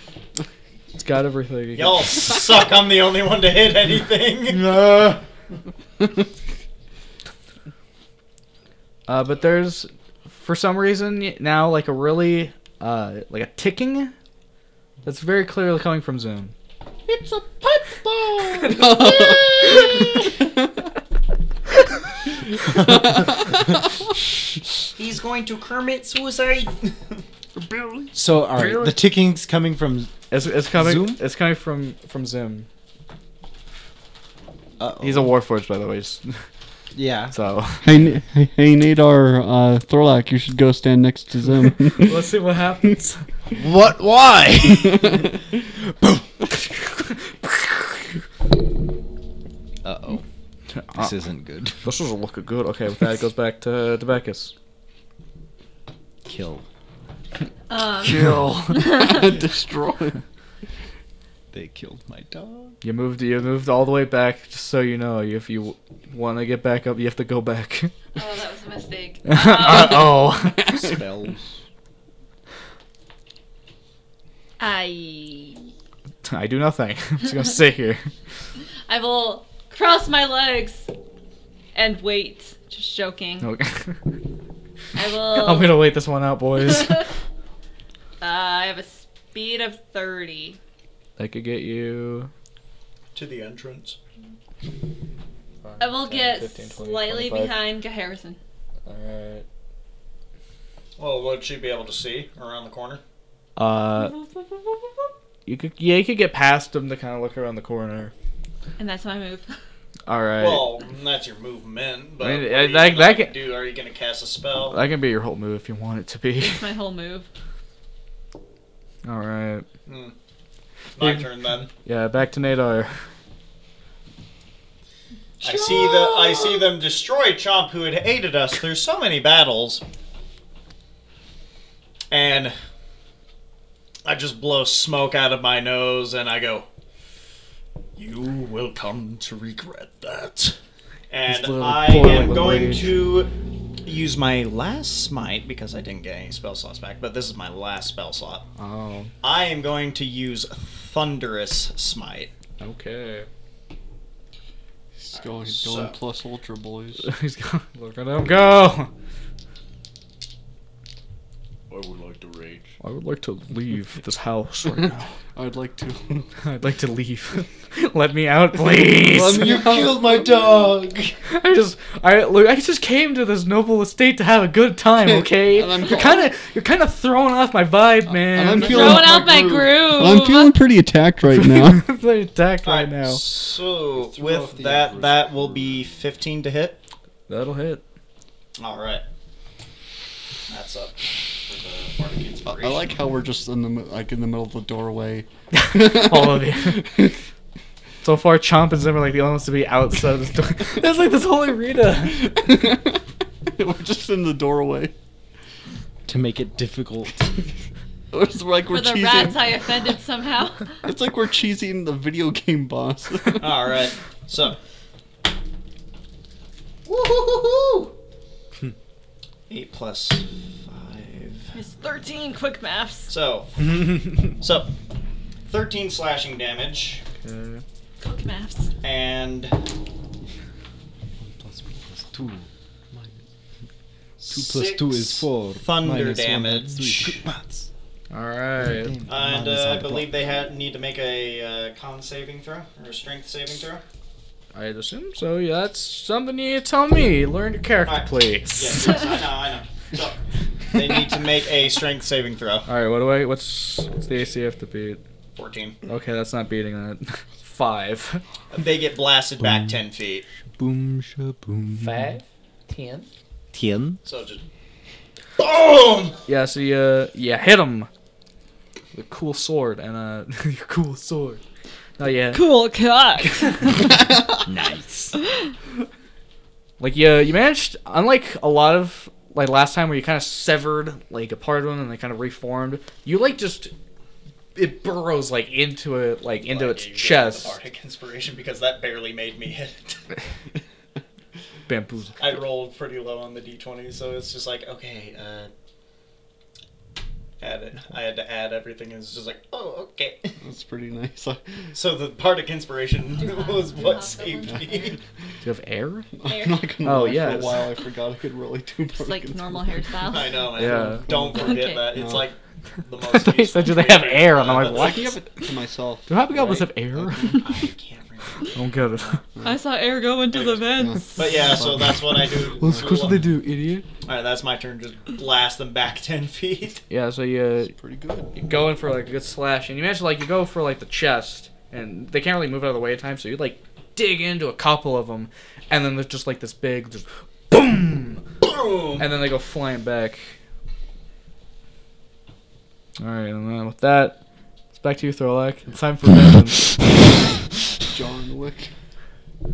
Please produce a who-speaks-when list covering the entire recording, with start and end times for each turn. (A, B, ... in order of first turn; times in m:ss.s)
0:01.0-0:02.1 A
0:01.8-0:04.7 B
0:04.5-0:05.2 A
0:09.1-0:14.1 A
0:15.0-0:16.5 A
0:17.1-0:20.3 B
0:18.7-0:20.5 C
0:22.8-0:23.7 C
0:25.0-0:27.0 B
0:27.6-0:28.1 C
0:28.1-0:30.2 D
0:28.6-0:29.0 A
0:30.3-0:32.7 A
0:30.7-0:31.2 D
0:34.8-0:35.3 D
0:35.0-0:36.5 A
0:36.9-0:37.4 D
0:37.3-0:37.9 A
0:37.8-0:42.3 C
0:42.0-0:43.2 A
0:43.5-0:45.3 D
0:47.1-0:47.6 A
0:49.8-0:50.2 D
0:50.7-0:51.1 A
0:51.0-0:51.8 D
0:51.8-0:54.5 A
0:56.2-0:56.6 D
0:57.7-0:59.3 E
0:58.0-0:58.9 A
0:58.7-1:00.2 C
1:01.5-1:02.8 D
1:02.8-1:07.9 A
1:08.2-1:10.3 E
1:09.2-1:10.7 A
1:10.6-1:11.5 D
1:14.6-1:15.6 E
1:16.2-1:18.1 A
1:18.9-1:20.9 E
1:21.8-1:23.5 E
1:23.4-1:24.0 A
1:25.0-1:25.8 E
1:25.4-1:27.1 A
1:26.7-1:27.1 E
1:28.2-1:30.6 E
1:31.2-1:32.3 A
1:33.2-1:34.0 B
1:35.6-1:37.6 A
1:35.8-1:38.4 E
1:38.9-1:39.4 A
1:41.0-1:43.0 B
1:43.6-1:44.2 A
1:45.5-1:48.1 A
1:48.8-1:49.6 E
1:50.1-1:50.7 A
1:50.4-1:54.8 B
1:52.2-1:53.4 A
1:54.7-1:56.7 A
1:56.4-1:57.3 E
1:59.0-1:59.6 A
1:59.9-2:00.2 B
2:01.0-2:01.7 B
2:01.0-2:01.3 A
2:01.8-2:03.0 A
2:05.4-2:09.8 B
2:05.4-2:06.6 D
2:12.1-2:12.6 B
2:14.0-2:16.7 B
2:18.0-2:20.6 B
2:21.1-2:23.3 B
2:21.3-2:23.0 A
2:23.8-2:28.4 B
2:28.6-2:29.1 A
2:29.2-2:32.3 B
2:32.6-2:33.3 A
2:35.0-2:37.1 C
2:35.1-2:36.0 B
2:37.0-2:38.9 A
2:41.7-2:42.6 D
2:42.8-2:45.1 A
2:45.4-2:46.3 C
2:46.4-2:49.5 A
2:49.1-2:50.8 C
2:49.2-2:51.2 D
2:51.3-2:59.1 A
2:55.0-2:56.3 C
2:58.1-3:01.9 C
2:58.6-3:00.6 E
2:59.2-2:59.6 D
3:01.3-3:03.2 A
3:02.6-3:06.8 B
3:03.9-3:05.7 D
3:07.3-3:07.8 A
3:08.6-3:09.0 B
3:10.5-3:12.9 B
3:12.5-3:17.2 C
3:15.5-3:16.9 A
3:18.0-3:22.4 A
3:22.2-3:24.9 C
3:26.1-3:27.4 D
3:28.1-3:29.8 C
3:28.7-3:30.8 E
3:30.8-3:33.5 C
3:33.4-3:34.6 B
3:36.8-3:37.9 B
3:39.5-3:41.5 B
3:41.5-3:43.1 E
3:43.1-3:44.7 B
3:43.6-3:44.3 D
3:45.5-3:47.0 B
3:47.2-3:47.6 A
3:48.0-3:48.7 E
3:48.8-3:49.6 B
3:51.2-3:53.2 D
3:54.2-3:57.2 B
3:54.3-3:57.7 D
3:58.1-3:59.0 A
3:58.6-4:00.1 D
3:59.1-4:03.8 B
4:04.5-4:09.0 A
4:07.8-4:10.2 B
4:10.7-4:12.7 B
4:12.7-4:15.0 A
4:15.4-4:15.8 B
4:15.9-4:18.2 A
4:18.5-4:20.2 B
4:19.4-4:19.8 D
4:20.6-4:22.0 D
4:21.8-4:23.1 A
4:23.5-4:24.0 D
4:24.0-4:24.4 B
4:25.4-4:26.2 B
4:26.3-4:27.9 A
4:28.9-4:31.4 A
4:32.0-4:32.5 A
4:32.3-4:34.0 E
4:33.2-4:33.8 A
4:34.4-4:35.2 D
4:36.8-4:43.7 A
4:44.6-4:47.6 A
4:46.5-4:50.0 B
4:51.7-4:52.4 A
4:52.2-4:55.5 B
4:57.4-5:00.4 B
5:00.4-5:01.7 C
5:01.7-5:05.0 B
5:03.2-5:05.0 E
5:05.4-5:06.1 A
5:06.2-5:09.8 C
5:06.2-5:06.7 E
5:06.8-5:07.6 A
5:09.0-5:10.5 E
5:10.0-5:15.1 B
5:10.5-5:11.1 A
5:10.6-5:12.3 C
5:11.3-5:11.9 E
5:13.0-5:15.2 A
5:14.6-5:17.4 C
5:16.1-5:17.4 A
5:17.2-5:19.2 B
5:18.5-5:19.2 A
5:19.4-5:19.6 C
5:19.4-5:21.4 E
5:20.3-5:23.3 B
5:20.7-5:23.2 C
5:22.6-5:23.9 A
5:24.1-5:26.8 B
5:26.9-5:27.8 A
5:27.7-5:28.3 C
5:28.4-5:38.2 A
5:38.4-5:39.0 B
5:39.0-5:40.4 A
5:43.0-5:44.2 A
5:44.7-5:46.7 A
5:47.9-5:48.7 C